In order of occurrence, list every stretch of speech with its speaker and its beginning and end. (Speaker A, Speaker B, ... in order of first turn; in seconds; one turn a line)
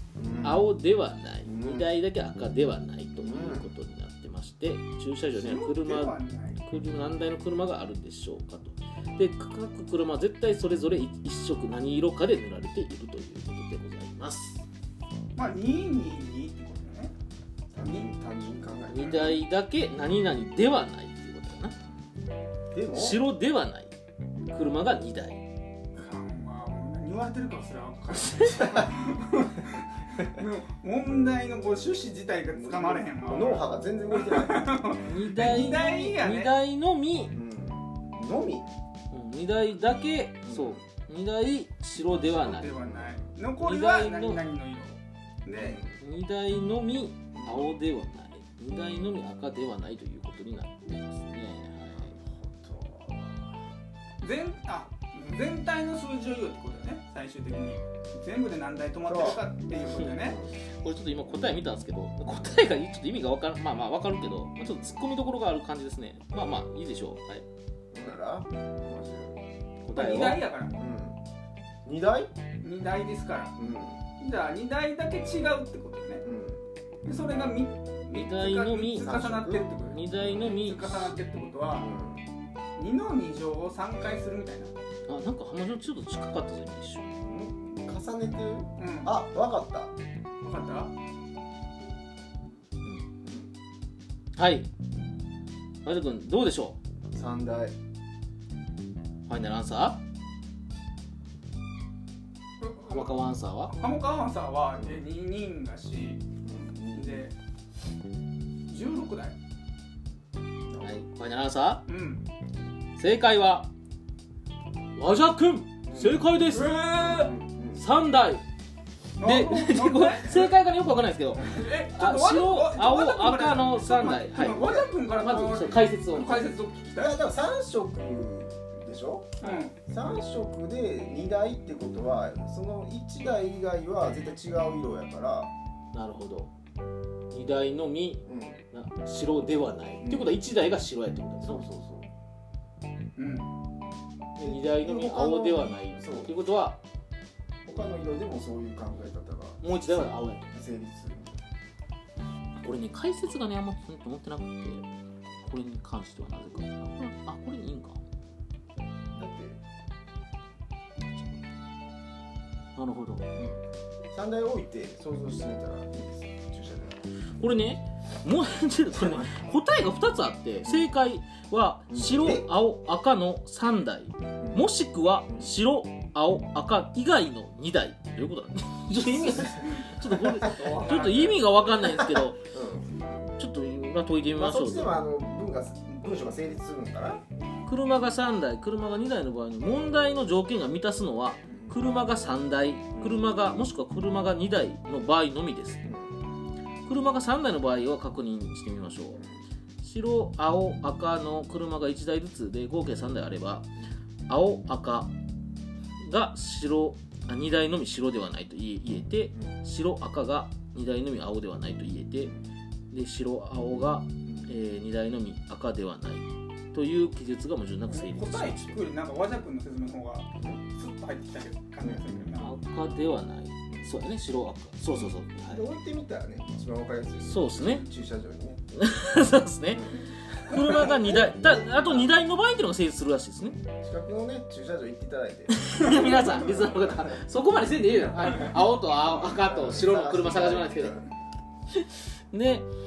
Speaker A: 0.1-0.7
Speaker B: 0.4-14.6
Speaker A: 1.4-1.9
Speaker A: 3.2-3.7
Speaker C: 5.3-6.6
Speaker C: 15.3-17.1
Speaker A: 17.7-19.4
Speaker C: 17.8-18.1
Speaker B: 18.9-21.7
Speaker A: 22.7-23.2
Speaker B: 22.9-23.9
Speaker B: 24.5-25.4
Speaker C: 26.0-36.5
Speaker A: 32.5-34.8
Speaker B: 35.0-37.3
Speaker A: 37.3-38.7
Speaker B: 39.1-42.8
Speaker A: 40.4-40.8
Speaker C: 42.2-45.8
Speaker A: 42.8-43.3
Speaker B: 43.6-44.4
Speaker A: 45.5-46.0
Speaker B: 46.0-52.1
Speaker A: 47.4-47.7
Speaker A: 52.0-53.4
Speaker C: 54.2-60.4
Speaker A: 59.0-59.5
Speaker A: 60.1-60.5
Speaker B: 60.8-67.4
Speaker A: 67.9-69.5
Speaker B: 69.8-70.4
Speaker C: 69.9-70.7
Speaker A: 70.7-71.2
Speaker A: 71.8-72.3
Speaker C: 72.6-73.5
Speaker A: 73.6-74.0
Speaker C: 74.2-76.2
Speaker A: 76.2-76.6
Speaker C: 77.0-81.9
Speaker B: 78.1-79.2
Speaker A: 78.9-80.5
Speaker B: 79.8-81.2
Speaker A: 81.8-82.2
Speaker C: 82.8-84.7
Speaker B: 85.1-87.1
Speaker A: 87.2-89.9
Speaker C: 88.8-89.2
Speaker C: 90.4-90.9
Speaker B: 94.4-94.7
Speaker B: 95.8-96.8
Speaker A: 97.1-97.7
Speaker B: 99.3-100.0
Speaker C: 102.6-103.2
Speaker B: 102.8-103.7
Speaker C: 103.7-106.2
Speaker A: 106.4-107.2
Speaker C: 106.9-107.3
Speaker C: 108.7-109.4
Speaker A: 110.7-111.0
Speaker B: 110.8-111.8
Speaker C: 111.9-112.2
Speaker B: 113.0-113.7
Speaker B: 115.0-116.9
Speaker A: 115.8-116.3
Speaker C: 116.5-117.3
Speaker A: 117.0-117.8
Speaker B: 117.7-118.4
Speaker C: 119.2-120.5
Speaker B: 119.2-126.5
Speaker C: 121.4-127.3
Speaker A: 124.2-124.9
Speaker A: 126.9-135.5
Speaker C: 129.4-129.7
Speaker B: 135.9-136.5
Speaker B: 137.3-141.6
Speaker A: 138.2-138.6
Speaker A: 140.0-140.4
Speaker A: 141.4-142.1
Speaker C: 143.2-143.5
Speaker A: 144.3-146.3
Speaker B: 144.4-146.8
Speaker A: 147.7-151.4
Speaker B: 149.6-150.5
Speaker B: 152.6-154.8
Speaker B: 155.4-158.0
Speaker A: 159.1-159.6
Speaker B: 162.8-163.2
Speaker A: 164.1-167.0
Speaker B: 167.4-182.4
Speaker A: 169.0-169.3
Speaker A: 170.6-170.9
Speaker A: 171.9-172.5
Speaker A: 174.4-174.7
Speaker A: 179.2-179.5
Speaker C: 179.4-181.2
Speaker A: 180.0-182.9
Speaker B: 183.4-185.0
Speaker A: 184.3-187.2
Speaker B: 187.6-195.8
Speaker A: 191.5-191.8
Speaker A: 192.9-193.2
Speaker A: 195.8-196.2
Speaker B: 196.8-199.2
Speaker B: 199.8-203.7
Speaker B: 204.3-205.1
Speaker B: 206.0-212.3
Speaker B: 212.9-218.9
Speaker C: 217.9-222.5
Speaker A: 221.8-222.4
Speaker B: 222.4-225.6
Speaker A: 224.9-228.6
Speaker B: 227.2-227.8
Speaker B: 228.7-233.6
Speaker A: 229.7-232.1
Speaker A: 233.6-237.2
Speaker B: 235.5-241.0
Speaker A: 238.9-241.1
Speaker B: 241.8-242.7